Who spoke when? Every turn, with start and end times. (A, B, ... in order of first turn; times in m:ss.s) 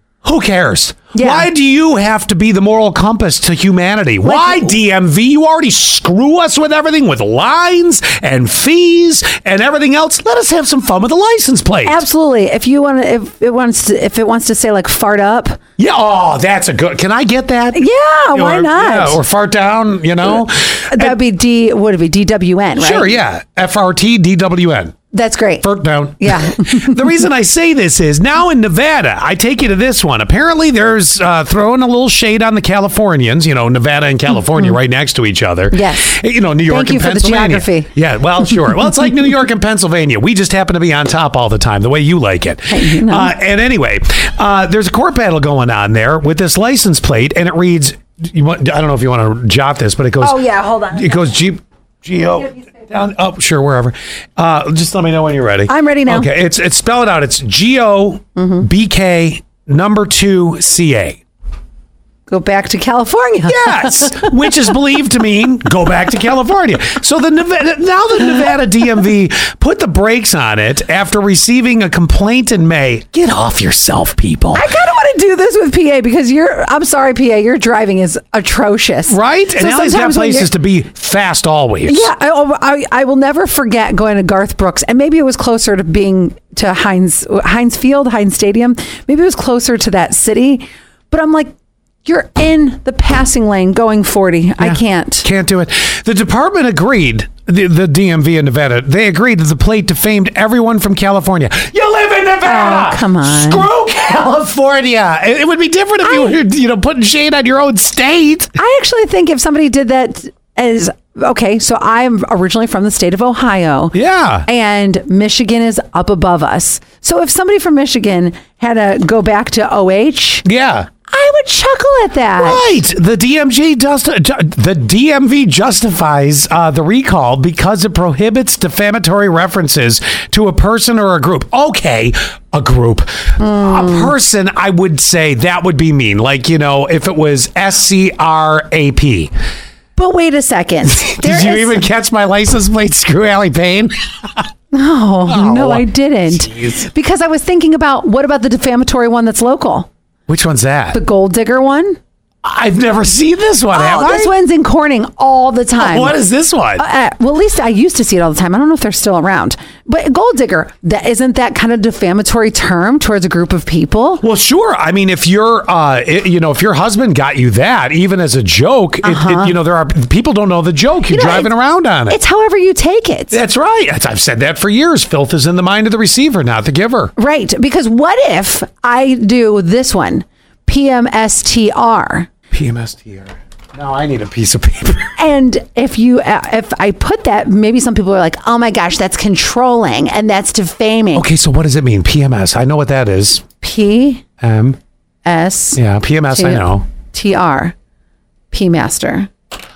0:00.2-0:12.0 A
0:01.1-0:01.5 B
0:04.2-0:04.7 B
0:11.8-0:15.6 B
0:15.8-0:21.1 A
0:17.7-0:19.2 B
0:20.9-0:23.1 B
0:22.8-0:25.0 A
0:25.1-0:25.6 B
0:25.6-0:50.4 A
0:26.2-0:27.2 B
0:35.7-0:36.2 B
0:36.7-0:37.9 B
0:42.7-0:43.3 B
0:50.2-0:51.4 B
0:50.9-1:01.2 A
0:55.7-0:56.3 B
0:58.4-0:58.7 B
1:02.3-1:04.8 B
1:03.5-1:14.7 A
1:14.5-1:20.5 B
1:19.1-1:22.1 A
1:21.8-1:35.2 B
1:34.6-1:48.5 A
1:42.4-1:43.6 B
1:46.0-1:46.4 B
1:48.6-2:00.4 B
1:53.9-1:54.5 A
2:00.4-2:00.9 A
2:01.1-2:02.7 B
2:02.4-2:19.3 A
2:13.4-2:14.1 B
2:20.0-2:21.8 B
2:20.8-2:24.4 A
2:24.7-2:29.9 B
2:25.3-2:26.8 A
2:30.3-2:31.0 A
2:30.9-2:32.0 B
2:32.4-2:34.3 A
2:33.7-2:36.2 B
2:35.8-2:36.8 A
2:36.8-2:44.2 B
2:44.2-2:52.2 A
2:49.0-2:49.5 B
2:51.1-2:51.5 B
2:52.1-2:53.4 B
2:53.3-2:57.1 A
2:57.2-3:02.3 B
3:02.5-3:05.1 A
3:05.2-3:11.3 B
3:11.1-3:13.4 A
3:13.6-3:14.2 B
3:14.4-3:14.8 A
3:15.2-3:17.7 B
3:15.7-3:16.8 A
3:18.5-3:19.3 B